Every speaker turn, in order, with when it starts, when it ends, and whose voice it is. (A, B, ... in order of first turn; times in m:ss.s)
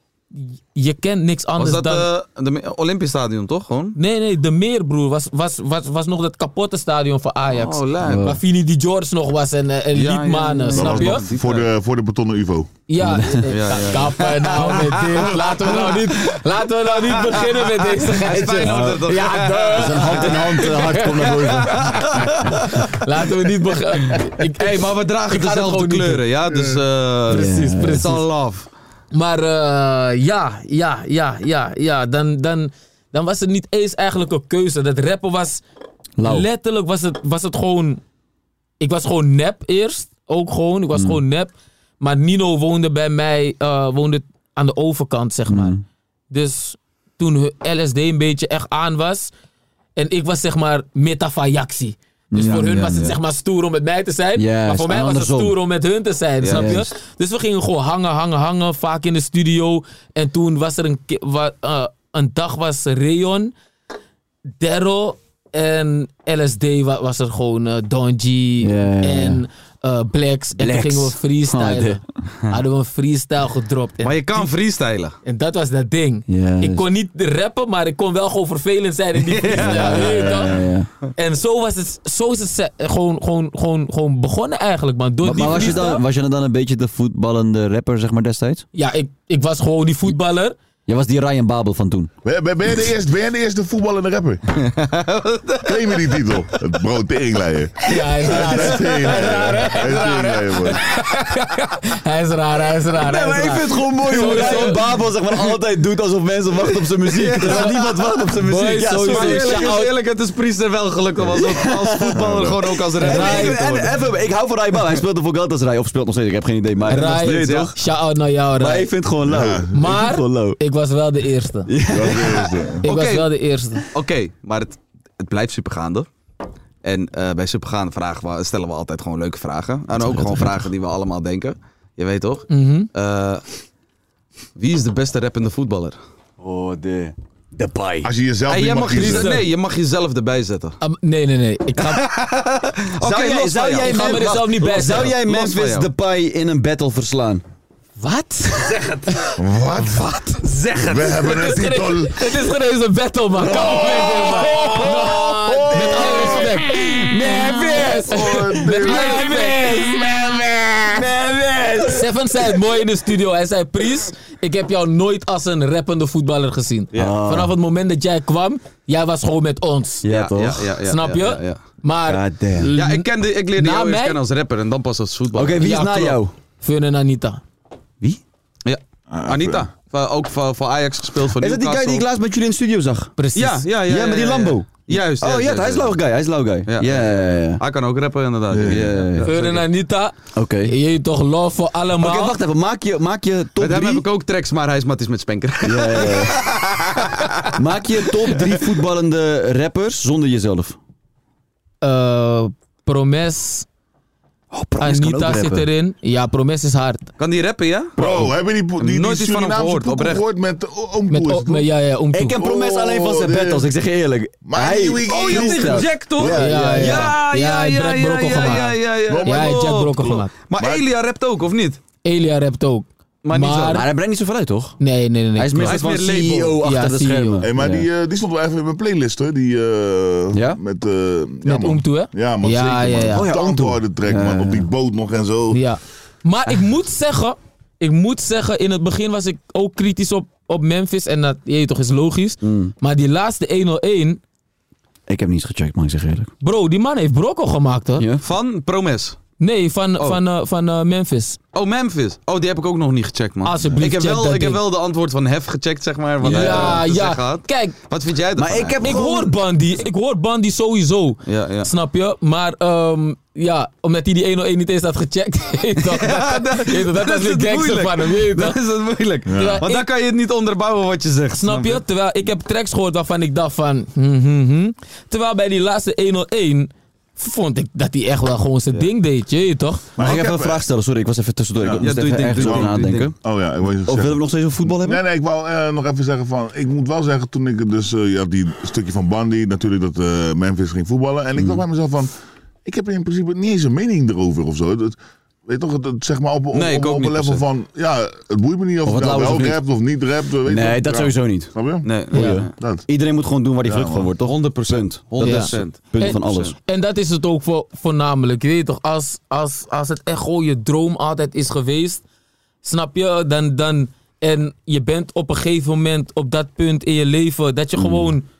0:00.3-0:02.1 A
0:01.6-0:04.0 B
0:03.9-0:11.2 A
0:07.5-0:08.2 B
0:08.0-0:08.4 C
0:09.9-0:11.7 B
0:10.7-0:12.7 D
0:12.9-0:26.2 A
0:13.0-0:13.5 C
0:13.5-0:16.4 B
0:14.5-0:15.0 C
0:17.0-0:20.6 B
0:18.3-0:22.5 C
0:21.6-0:22.8 B
0:24.6-0:28.7 B
0:26.5-0:26.8 D
0:27.3-0:28.2 C
0:27.3-0:28.2 A
0:29.1-0:35.6 A
0:36.2-0:36.4 C
0:36.2-0:38.0 A
0:38.8-0:45.8 A
0:40.9-0:41.2 C
0:45.5-0:45.8 C
0:46.3-0:49.3 A
0:50.0-1:03.5 A
0:52.3-0:53.2 C
0:54.4-0:55.6 C
0:56.4-0:56.7 B
0:56.5-0:56.9 C
1:04.6-1:14.5 A
1:08.6-1:09.4 C
1:10.6-1:12.0 C
1:14.0-1:15.2 B
1:15.2-1:20.5 A
1:16.3-1:16.8 C
1:19.3-1:20.3 B
1:19.4-1:20.9 C
1:21.2-1:26.0 A
1:25.2-1:28.6 C
1:28.7-1:30.5 A
1:30.9-1:32.1 C
1:32.2-1:34.4 D
1:34.6-1:36.1 B
1:35.6-1:40.8 D
1:37.8-1:44.8 A
1:38.3-1:38.9 C
1:43.0-1:49.8 C
1:44.1-1:44.8 B
1:47.0-1:47.9 B
1:47.4-1:47.8 A
1:48.4-1:49.9 A
1:49.0-1:53.9 B
1:51.2-1:52.3 C
1:52.2-1:52.6 D
1:52.9-1:57.8 C
1:53.0-1:53.8 A
1:56.9-1:58.9 A
1:57.0-1:57.7 B
1:58.6-2:00.6 C
1:59.2-1:59.7 D
1:59.7-2:01.7 A
2:01.7-2:02.8 C
2:01.9-2:02.8 D
2:02.8-2:03.8 A
2:02.8-2:03.3 B
2:03.9-2:06.1 B
2:06.8-2:13.4 B
2:09.9-2:10.7 C
2:12.5-2:12.9 A
2:14.6-2:16.0 B
2:16.4-2:18.1 C
2:18.0-2:19.3 D
2:18.5-2:20.8 B
2:18.9-2:19.4 A
2:20.8-2:22.0 A
2:21.8-2:25.9 B
2:23.0-2:27.4 C
2:23.8-2:25.1 A
2:28.0-2:28.8 A
2:29.4-2:30.1 D
2:30.7-2:31.3 B
2:30.8-2:32.2 D
2:31.2-2:40.0 A
2:33.4-2:42.1 C
2:33.7-2:36.4 D
2:38.1-2:40.8 D
2:41.9-2:50.0 A
2:46.9-2:47.5 C
2:50.0-2:50.8 C
2:50.0-2:51.6 B
2:50.8-2:54.2 A
2:52.1-2:52.7 C
2:52.7-2:55.7 B
2:55.3-2:56.3 C
2:55.6-2:57.4 A
2:58.6-3:02.0 B
2:59.1-2:59.7 D
3:01.4-3:03.1 C
3:03.2-3:03.6 A
3:03.3-3:05.9 B
3:03.8-3:07.6 C
3:06.7-3:09.6 B
3:08.5-3:09.1 D
3:08.6-3:09.3 C
3:09.2-3:12.4 A
3:10.3-3:10.7 C
3:12.0-3:14.0 C
3:13.6-3:17.5 B
3:15.6-3:16.4 C
3:17.5-3:20.8 C
3:21.8-3:23.6 A
3:24.5-3:25.7 C
3:24.8-3:27.1 A
3:27.2-3:30.2 B
3:28.0-3:31.7 D
3:31.1-3:32.4 A
3:32.1-3:37.2 C
3:32.4-3:33.7 D
3:34.4-3:35.9 D
3:35.1-3:41.8 B
3:36.3-3:40.3 A
3:38.4-3:39.9 D
3:40.6-3:40.8 D
3:42.0-3:43.8 A
3:43.2-3:43.8 B
3:43.7-3:44.8 C
3:44.8-3:45.8 A
3:45.4-3:47.9 C
3:45.6-3:46.6 B
3:46.6-3:47.4 A
3:47.4-3:55.6 D
3:50.3-3:50.6 C
3:51.4-3:53.3 A
3:53.1-3:54.7 C
3:55.5-4:04.2 A
4:02.4-4:02.7 C
4:05.1-4:06.3 C
4:06.4-4:08.0 A
4:08.0-4:08.2 C
4:08.2-4:09.2 B
4:09.4-4:11.4 A
4:11.5-4:18.8 B
4:13.4-4:14.6 A
4:16.2-4:17.7 A
4:16.2-4:16.8 C
4:18.4-4:19.4 C
4:18.8-4:28.6 A
4:21.2-4:21.7 B
4:25.8-4:31.8 B
4:29.3-4:29.6 D
4:29.3-4:29.9 A
4:31.4-4:39.8 A
4:40.0-4:40.6 D
4:40.0-4:43.2 C
4:41.6-4:52.1 D
4:41.8-4:43.1 B
4:43.8-4:45.0 C
4:51.4-4:51.6 C
4:52.6-5:01.9 D
4:56.5-4:57.4 B
4:58.8-4:59.6 C
5:00.4-5:01.5 C
5:01.8-5:02.5 B
5:02.0-5:06.5 C
5:02.1-5:02.4 A
5:02.6-5:02.8 D
5:03.6-5:04.1 D
5:04.2-5:06.5 B
5:05.2-5:12.0 A
5:12.6-5:18.2 A
5:17.8-5:18.1 C